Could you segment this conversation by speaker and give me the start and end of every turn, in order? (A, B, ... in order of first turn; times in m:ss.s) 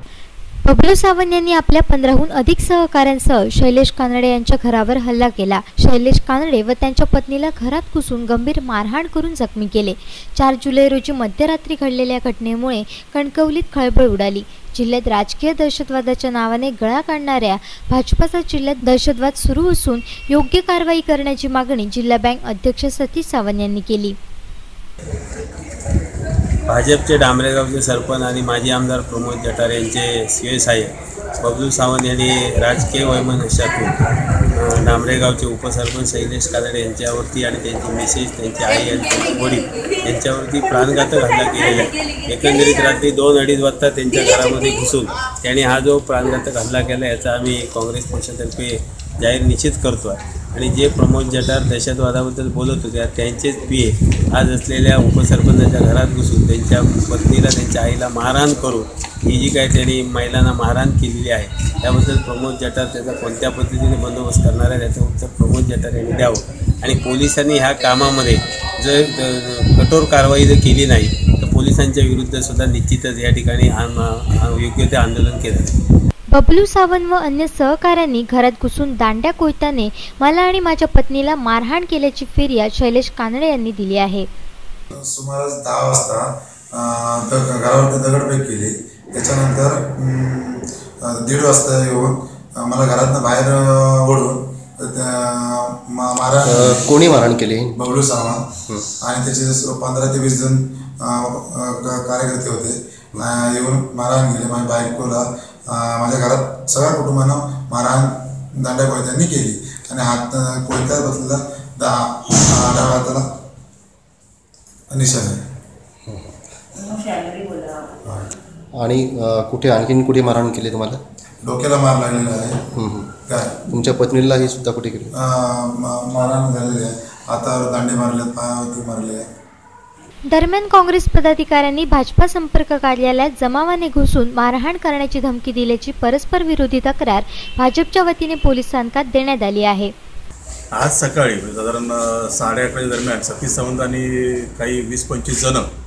0:00.6-0:24.2 A
0:26.7-0:33.9 B
0:34.5-1:15.7 B
1:16.3-1:24.3 A
1:24.9-1:36.9 C
1:36.4-1:37.8 D
1:37.8-1:53.2 C
1:54.9-1:55.4 C
1:56.1-1:56.3 D
1:58.8-2:01.0 D
2:01.4-2:02.7 C
2:02.7-2:03.1 D
2:03.3-2:03.6 C
2:03.7-2:05.1 D
2:05.2-2:09.2 C
2:10.3-2:19.9 A
2:20.7-2:25.7 E